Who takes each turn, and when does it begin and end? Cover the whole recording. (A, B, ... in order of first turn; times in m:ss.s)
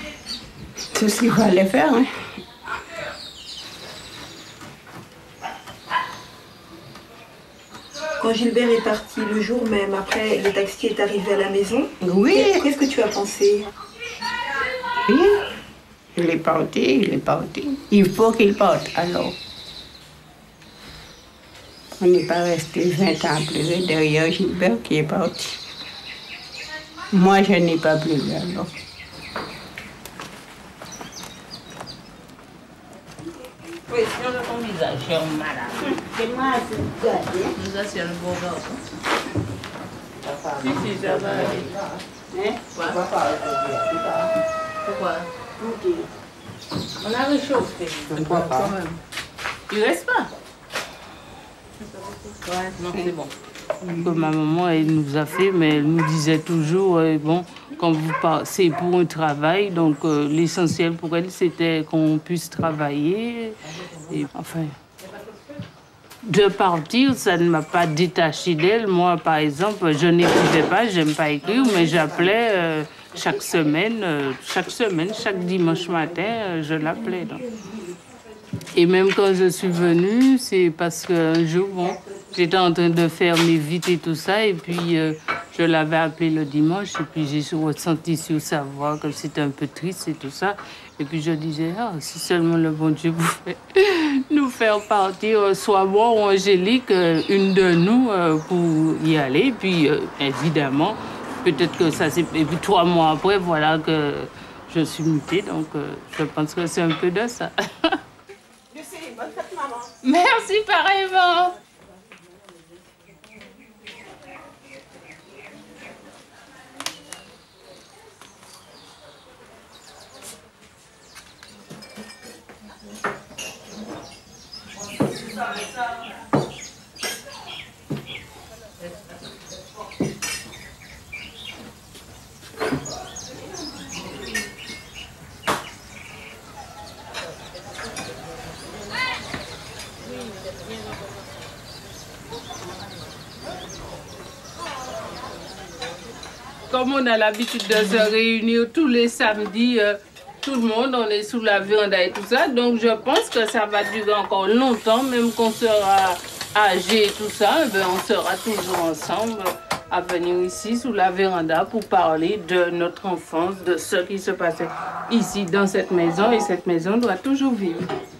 0:00.9-0:02.1 A
0:08.2-0:13.7 B
0:12.0-0:12.6 A
0:15.0-0:15.4 A
0:16.2-0:19.4 A
0:22.0-0:25.6 A
0:27.1-0:28.7 A
0:33.9-0:35.9 C
0:35.8-0:37.5 A
0:37.6-0:38.8 C
0:40.2-0:42.0 C
0:40.6-0:41.6 D
0:42.3-0:43.0 A
0:42.7-0:44.3 C
0:44.8-0:45.3 C
0:45.6-0:46.1 A
0:47.0-0:49.0 C
0:48.1-0:48.8 A
0:49.7-0:50.3 D
0:51.8-0:53.1 C
0:52.5-0:53.1 A
0:52.9-0:53.1 D
0:53.8-0:54.1 A
0:54.0-1:03.6 D
1:04.1-1:04.8 D
1:06.2-1:17.4 D
1:18.7-1:48.0 D
1:50.0-1:51.5 D
2:26.7-2:47.9 D